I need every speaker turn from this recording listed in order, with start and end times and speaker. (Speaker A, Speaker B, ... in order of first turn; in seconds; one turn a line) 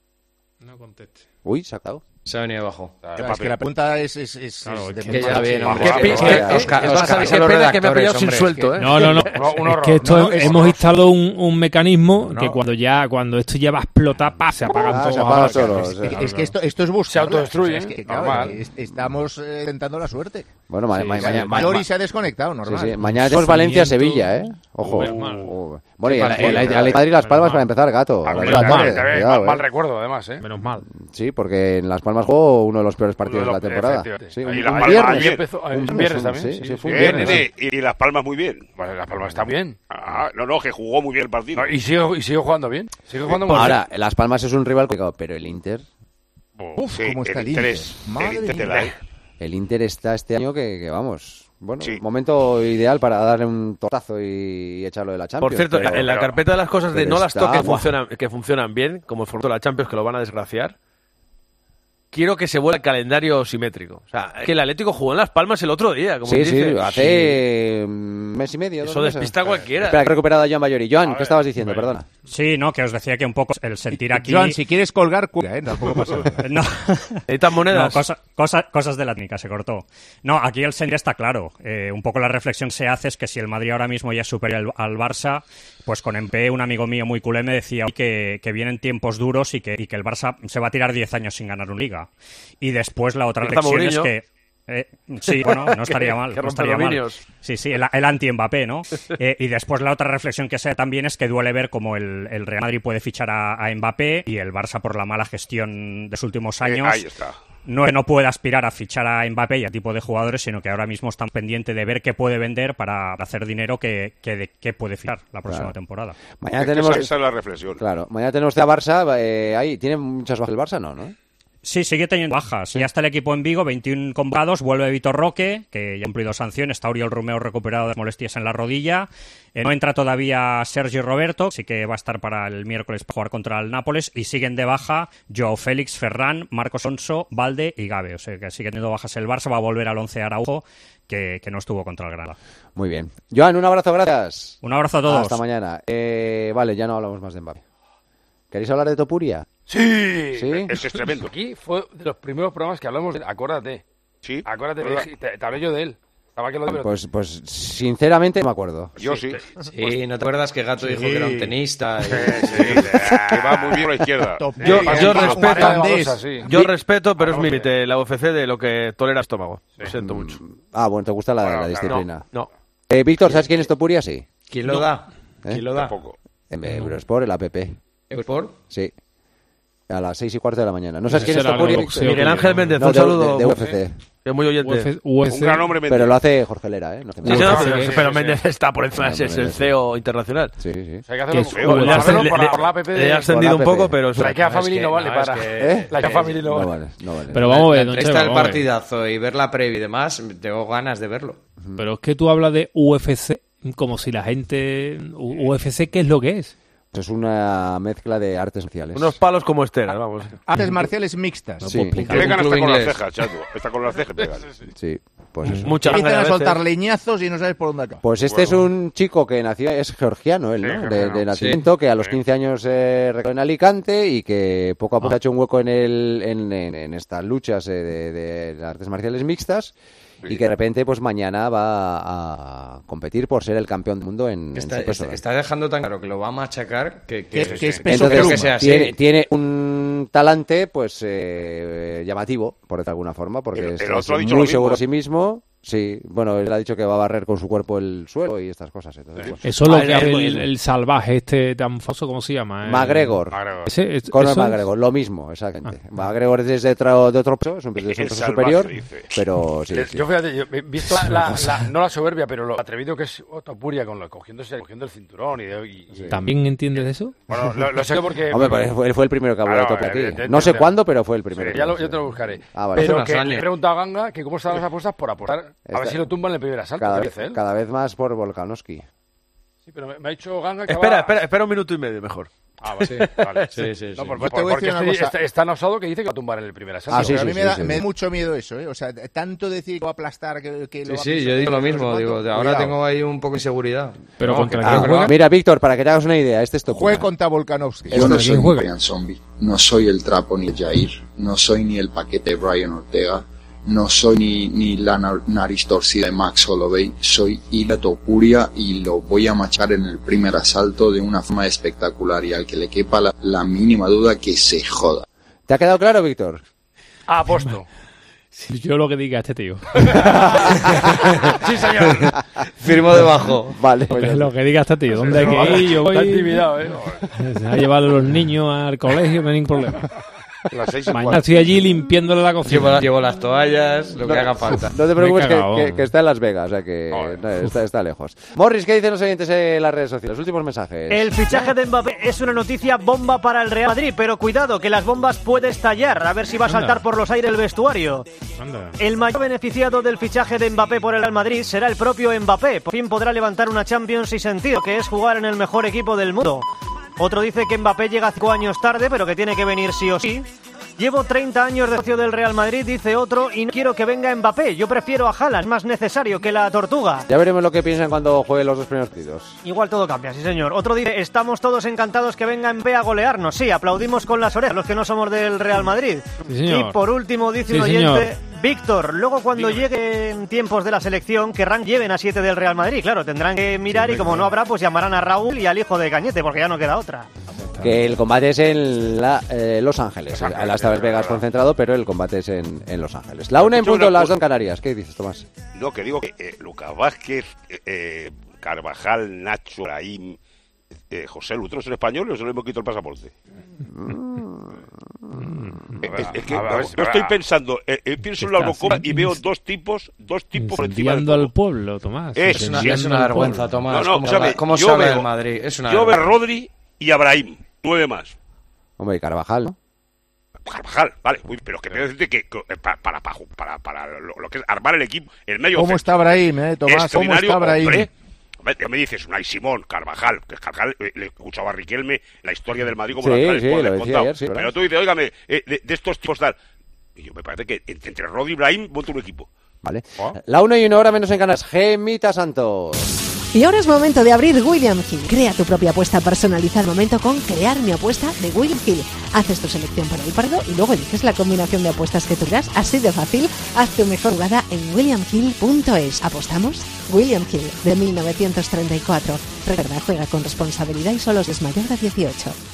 Speaker A: 0.6-1.2
Speaker B: 1.4-2.0
Speaker C: 2.2-3.0
Speaker D: 3.0-3.4
Speaker E: 3.2-6.8
Speaker F: 3.2-3.5
Speaker A: 4.6-6.4
Speaker C: 5.1-8.8
Speaker G: 5.8-9.2
Speaker B: 6.2-6.7
Speaker A: 8.8-16.5
Speaker D: 9.2-10.7
Speaker E: 10.0-10.8
Speaker B: 14.8-16.2
Speaker E: 16.0-20.6
Speaker D: 17.1-18.6
Speaker B: 20.7-21.9
Speaker A: 20.9-21.6
Speaker E: 21.2-23.0
Speaker B: 22.6-29.6
Speaker A: 23.0-25.5
Speaker D: 24.9-25.4
Speaker C: 26.0-27.1
Speaker A: 26.3-27.7
Speaker D: 28.3-30.4
Speaker A: 28.3-29.1
Speaker A: 30.4-30.9
Speaker B: 30.9-37.5
Speaker D: 33.2-37.5
Speaker F: 34.5-35.5
Speaker F: 36.9-38.7
Speaker D: 38.8-39.8
Speaker F: 39.9-41.7
Speaker D: 41.5-43.8
Speaker B: 43.5-45.9
Speaker E: 46.8-48.9
Speaker F: 47.0-49.0
Speaker B: 49.4-56.1
Speaker G: 55.4-60.8
Speaker F: 55.8-56.4
Speaker B: 56.9-57.9
Speaker G: 62.1-67.4
Speaker B: 66.2-72.0
Speaker G: 68.8-70.1
Speaker H: 72.3-74.6
Speaker E: 73.9-76.5
Speaker H: 76.4-92.1
Speaker G: 77.3-78.0
Speaker H: 92.6-107.0
Speaker G: 93.4-94.1
Speaker G: 95.3-97.2
Speaker F: 106.6-107.4
Speaker H: 107.7-116.2
Speaker B: 115.5-115.7
Speaker B: 116.3-117.1
Speaker F: 116.6-117.8
Speaker B: 117.8-121.1
Speaker H: 121.6-142.4
Speaker B: 142.8-147.6
Speaker H: 144.6-145.4
Speaker B: 148.5-149.5
Speaker D: 149.7-153.8
Speaker B: 150.3-150.7
Speaker F: 150.7-151.3
Speaker F: 154.2-155.0
Speaker D: 154.4-156.9
Speaker B: 156.7-158.9
Speaker F: 159.0-159.4
Speaker D: 159.0-159.4
Speaker C: 159.6-163.1
Speaker D: 160.9-161.5
Speaker D: 162.0-163.8
Speaker F: 162.5-165.3
Speaker E: 164.4-166.4
Speaker G: 164.6-165.9
Speaker D: 164.6-166.5
Speaker G: 166.4-170.4
Speaker D: 167.2-167.7
Speaker B: 170.0-172.3
Speaker D: 171.6-171.9
Speaker G: 171.8-172.5
Speaker B: 172.9-174.2
Speaker C: 173.2-173.5
Speaker C: 174.5-176.0
Speaker F: 175.7-176.2
Speaker B: 176.5-177.8
Speaker C: 178.1-178.6
Speaker B: 179.9-184.0
Speaker A: 181.1-182.8
Speaker G: 181.3-184.9
Speaker A: 184.6-185.8
Speaker F: 185.2-186.2
Speaker B: 185.9-187.7
Speaker G: 187.2-190.5
Speaker A: 187.3-188.0
Speaker D: 187.3-188.4
Speaker B: 188.9-189.7
Speaker B: 190.6-191.0
Speaker D: 191.1-193.3
Speaker A: 191.3-192.3
Speaker F: 191.4-192.0
Speaker G: 191.8-195.3
Speaker B: 193.3-194.0
Speaker D: 194.1-196.7
Speaker C: 194.6-196.4
Speaker B: 195.6-197.4
Speaker A: 197.3-198.6
Speaker C: 197.4-201.4
Speaker A: 201.8-206.5
Speaker B: 206.9-209.2
Speaker G: 208.9-210.4
Speaker E: 210.4-211.7
Speaker A: 210.6-210.8
Speaker A: 211.6-212.4
Speaker B: 211.6-212.0
Speaker C: 212.0-213.0
Speaker F: 212.1-214.5
Speaker B: 214.7-215.8
Speaker G: 215.6-216.6
Speaker E: 215.8-218.0
Speaker B: 218.0-229.7
Speaker F: 218.2-218.6
Speaker D: 220.9-221.2
Speaker C: 221.3-221.7
Speaker B: 230.3-235.2
Speaker C: 234.5-238.9
Speaker E: 237.3-238.6
Speaker B: 237.8-249.4
Speaker F: 243.6-244.8
Speaker A: 249.4-254.6
Speaker G: 249.7-250.4
Speaker B: 252.6-253.4
Speaker D: 253.3-253.7
Speaker B: 254.1-260.0
Speaker F: 257.8-259.1
Speaker D: 259.7-266.2
Speaker B: 260.9-261.5
Speaker A: 266.1-267.2
Speaker D: 267.3-268.7
Speaker B: 268.3-273.0
Speaker D: 269.4-270.8
Speaker D: 271.3-277.4
Speaker C: 272.7-273.5
Speaker B: 275.7-276.1
Speaker B: 276.8-278.9
Speaker D: 279.6-281.2
Speaker G: 280.7-283.5
Speaker D: 282.6-287.2
Speaker C: 282.8-284.2
Speaker E: 284.0-285.2
Speaker B: 286.9-287.9
Speaker E: 286.9-292.8
Speaker C: 287.0-287.3
Speaker C: 290.9-295.2
Speaker A: 294.2-295.2
Speaker B: 294.6-297.1
Speaker E: 296.7-298.3
Speaker B: 297.9-298.5
Speaker I: 297.9-315.1
Speaker A: 297.9-298.7
Speaker B: 315.5-316.4
Speaker D: 317.1-317.7
Speaker A: 318.3-320.8
Speaker D: 320.0-320.7
Speaker D: 321.3-322.1
Speaker C: 322.6-323.6
Speaker B: 323.5-324.3
Speaker A: 323.9-326.5
Speaker D: 325.0-327.1
Speaker A: 327.1-329.9
Speaker D: 330.5-331.2
Speaker A: 330.9-332.9
Speaker C: 332.4-334.7
Speaker B: 334.1-341.4
Speaker A: 334.8-335.9
Speaker D: 336.9-337.2
Speaker J: 340.9-348.1
Speaker A: 346.5-346.8
Speaker A: 348.4-348.8
Speaker J: 348.8-356.4
Speaker J: 357.0-367.1
Speaker B: 367.1-369.4
Speaker J: 369.4-387.1
Speaker A: 376.3-376.8
Speaker A: 377.5-378.1
Speaker A: 383.7-384.3
Speaker A: 387.3-387.9
Speaker B: 387.6-395.3
Speaker D: 390.1-391.2
Speaker F: 393.4-394.1
Speaker F: 395.5-400.2
Speaker F: 400.9-403.1
Speaker B: 403.7-404.6
Speaker A: 405.1-405.9
Speaker D: 405.8-407.2
Speaker F: 405.9-411.3
Speaker A: 408.2-409.2
Speaker A: 410.4-413.5
Speaker F: 412.1-412.7
Speaker C: 412.3-416.2
Speaker F: 413.7-415.1
Speaker F: 415.7-418.1
Speaker B: 418.8-419.6
Speaker F: 420.4-426.0
Speaker E: 425.5-427.9
Speaker F: 426.7-427.9
Speaker F: 428.4-436.4
Speaker B: 433.0-434.5
Speaker F: 437.0-439.3
Speaker B: 439.6-443.0
Speaker K: 443.3-462.4